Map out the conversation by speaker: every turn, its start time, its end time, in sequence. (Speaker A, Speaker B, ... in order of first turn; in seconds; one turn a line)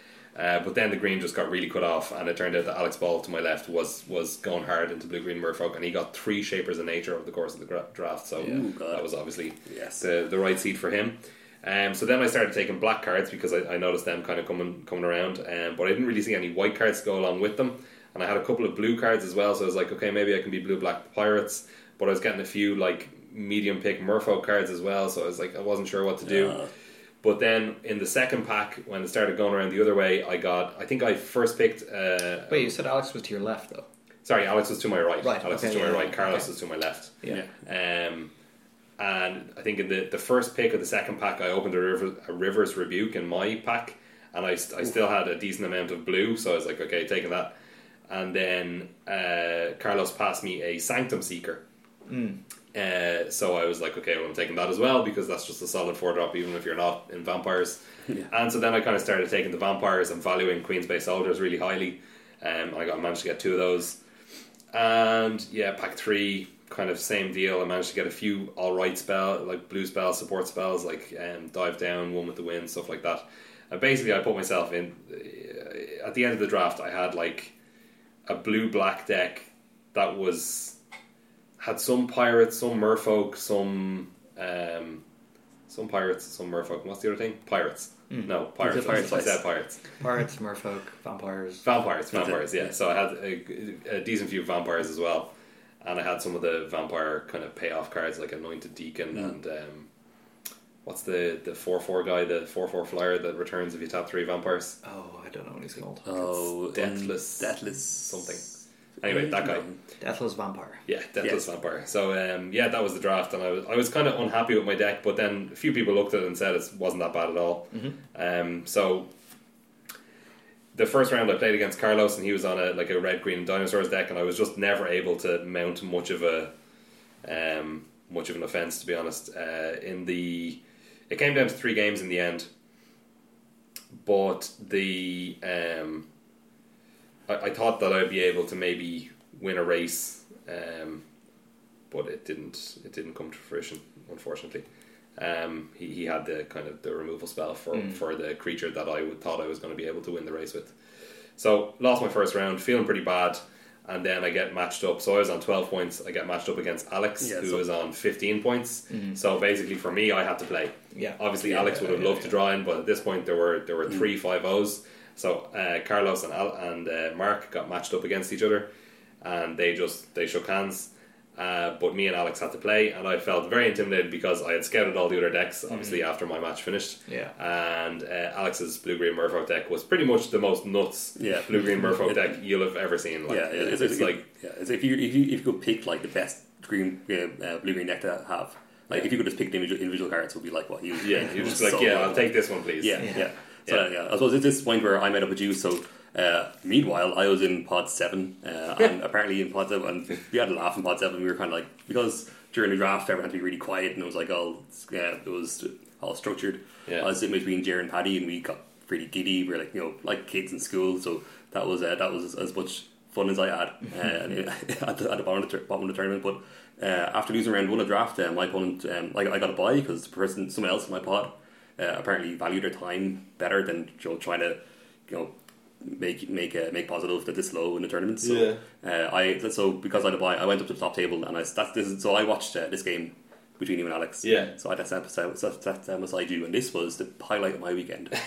Speaker A: 0.3-26.6
Speaker B: 8.4-9.1
Speaker B: 9.7-10.0
Speaker B: 26.2-26.7
Speaker A: 27.2-32.7
Speaker C: 32.5-33.9
Speaker A: 34.2-38.3
Speaker C: 35.2-36.5
Speaker A: 39.0-47.5
Speaker A: 48.1-51.6
Speaker C: 52.1-52.4
Speaker A: 52.7-64.0
Speaker A: 64.7-77.5
Speaker A: 78.3-80.8
Speaker A: 81.6-85.0
Speaker A: 85.7-89.8
Speaker C: 88.1-89.4
Speaker B: 88.6-89.4
Speaker C: 90.0-91.7
Speaker A: 91.7-95.3
Speaker B: 92.1-92.5
Speaker A: 95.8-99.9
Speaker A: 100.8-104.8
Speaker C: 104.8-106.5
Speaker B: 106.0-108.3
Speaker A: 106.7-108.5
Speaker A: 109.0-109.7
Speaker B: 109.0-109.8
Speaker C: 110.0-110.8
Speaker A: 110.9-119.1
Speaker A: 120.7-126.5
Speaker A: 127.2-132.5
Speaker A: 134.0-136.1
Speaker A: 137.3-141.0
Speaker A: 141.9-144.7
Speaker A: 145.2-150.8
Speaker A: 151.4-168.7
Speaker B: 157.2-157.7
Speaker C: 160.9-162.3
Speaker A: 169.2-184.2
Speaker C: 177.1-177.3
Speaker B: 181.2-182.4
Speaker B: 183.3-238.2
Speaker A: 191.0-193.9
Speaker A: 228.2-228.6
Speaker A: 234.2-234.5